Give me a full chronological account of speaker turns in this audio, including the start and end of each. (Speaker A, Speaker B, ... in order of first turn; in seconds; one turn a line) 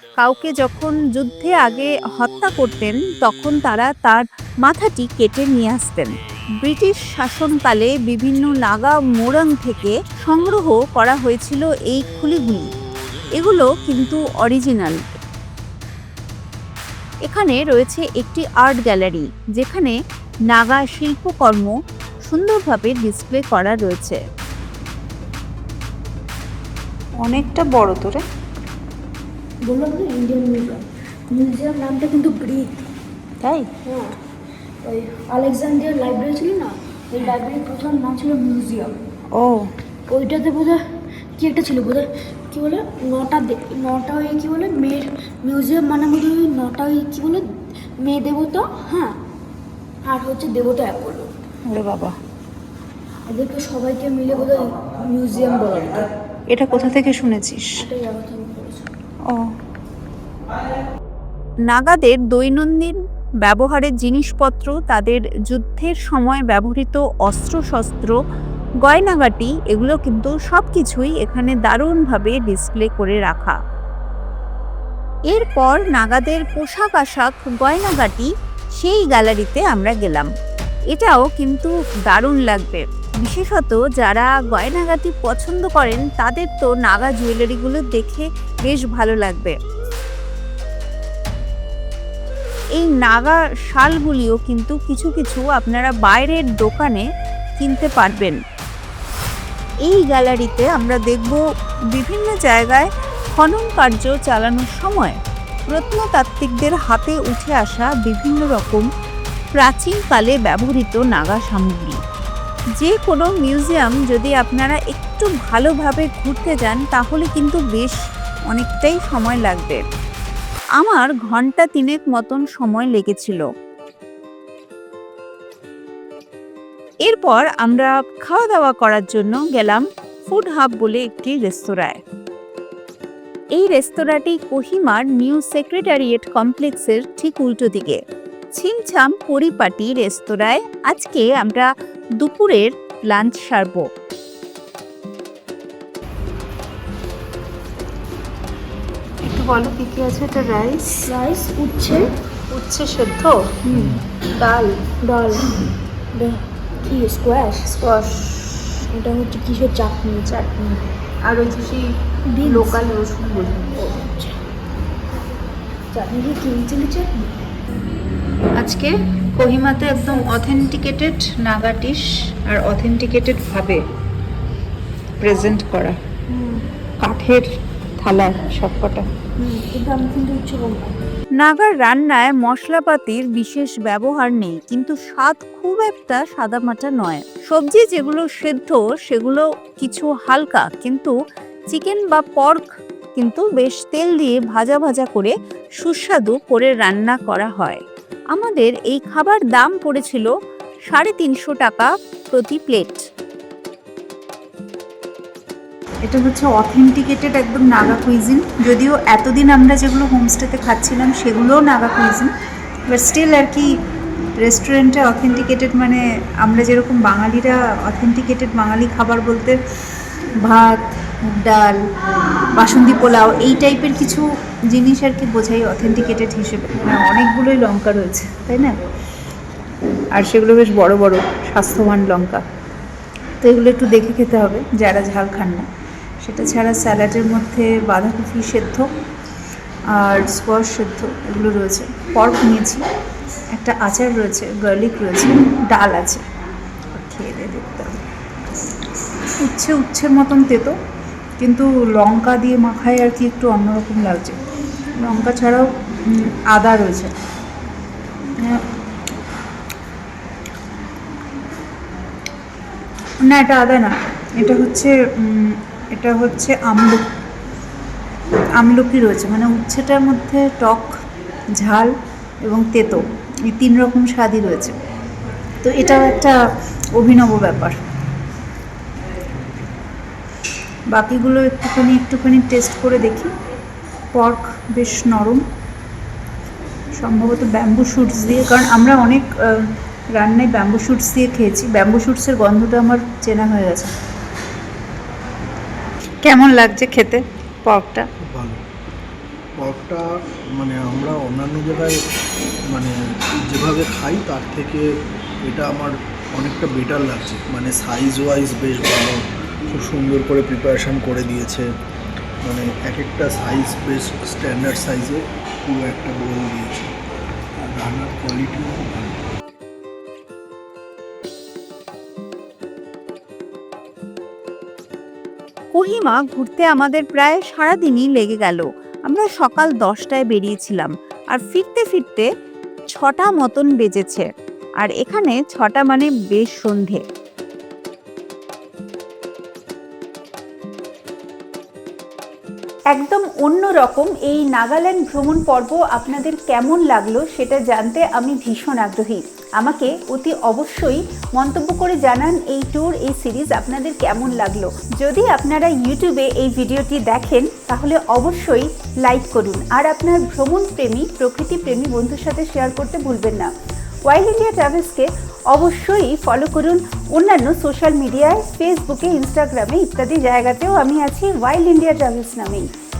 Speaker A: 0.2-12.7
Speaker A: 13.4-15.0
Speaker A: 17.3-19.9
Speaker A: 20.5-21.8
Speaker A: 22.3-24.2
Speaker B: 27.2-28.2
Speaker C: 29.6-32.8
Speaker B: 33.4-33.7
Speaker C: 33.8-34.1
Speaker C: 34.8-39.0
Speaker B: 39.4-39.6
Speaker C: 40.1-40.8
Speaker C: 41.4-47.4
Speaker C: 48.0-49.1
Speaker C: 50.1-51.3
Speaker B: 51.7-52.1
Speaker C: 53.3-56.1
Speaker B: 56.5-57.6
Speaker C: 57.8-58.9
Speaker A: 61.7-68.2
Speaker A: 68.8-73.6
Speaker A: 75.3-78.3
Speaker A: 78.8-80.3
Speaker A: 80.9-89.5
Speaker A: 92.8-97.0
Speaker A: 97.6-98.4
Speaker A: 99.8-101.4
Speaker A: 101.9-105.2
Speaker A: 105.7-108.9
Speaker A: 109.6-112.0
Speaker A: 112.8-118.0
Speaker A: 118.5-119.8
Speaker A: 120.8-123.4
Speaker A: 127.1-132.0
Speaker A: 133.6-138.0
Speaker A: 138.5-143.9
Speaker B: 149.3-150.8
Speaker C: 151.1-152.1
Speaker B: 152.5-154.8
Speaker D: 153.7-154.0
Speaker C: 154.9-155.5
Speaker C: 156.1-157.7
Speaker B: 157.8-158.6
Speaker C: 158.9-160.8
Speaker B: 161.3-161.8
Speaker C: 162.3-162.9
Speaker B: 162.5-163.9
Speaker A: 162.6-162.9
Speaker C: 163.7-164.4
Speaker C: 165.9-167.3
Speaker B: 168.6-172.0
Speaker B: 172.5-173.8
Speaker B: 175.2-175.9
Speaker B: 177.0-177.4
Speaker B: 178.0-179.0
Speaker C: 179.4-180.9
Speaker A: 181.4-191.1
Speaker A: 191.7-192.6
Speaker A: 193.2-197.8
Speaker A: 198.3-200.3
Speaker A: 200.9-203.1
Speaker B: 206.1-212.2
Speaker A: 206.2-209.4
Speaker A: 212.9-213.6
Speaker B: 212.9-213.6
Speaker B: 214.5-219.5
Speaker A: 214.5-215.7
Speaker A: 216.7-217.4
Speaker A: 218.1-219.4
Speaker B: 220.5-220.8
Speaker B: 221.4-221.7
Speaker A: 222.6-224.2
Speaker B: 222.9-224.2
Speaker A: 224.8-228.7
Speaker B: 225.5-228.5
Speaker B: 230.2-232.4
Speaker A: 230.4-232.4
Speaker A: 233.4-235.2
Speaker B: 234.0-235.6
Speaker B: 236.3-238.8
Speaker A: 237.9-238.8
Speaker B: 240.1-242.8
Speaker A: 240.5-241.0
Speaker B: 243.6-246.2
Speaker B: 247.0-247.8
Speaker A: 247.6-247.9
Speaker B: 249.5-250.7
Speaker B: 251.4-254.3
Speaker B: 255.0-255.6
Speaker B: 256.5-257.1
Speaker B: 263.3-263.9
Speaker B: 264.4-264.9
Speaker B: 266.0-267.0
Speaker B: 268.6-270.9
Speaker B: 272.5-273.0
Speaker B: 273.5-274.7
Speaker B: 275.6-276.3
Speaker B: 277.0-277.7
Speaker B: 281.0-283.3
Speaker B: 284.2-285.4
Speaker B: 287.0-289.2
Speaker B: 290.2-293.9
Speaker B: 296.2-298.0
Speaker D: 298.3-298.6
Speaker D: 299.6-300.1
Speaker D: 300.6-301.9
Speaker D: 302.7-304.8
Speaker D: 305.4-311.7
Speaker D: 312.4-316.9
Speaker D: 317.6-319.2
Speaker A: 325.7-332.3
Speaker A: 332.9-334.3
Speaker A: 334.8-337.0
Speaker A: 342.9-363.5
Speaker A: 364.1-372.6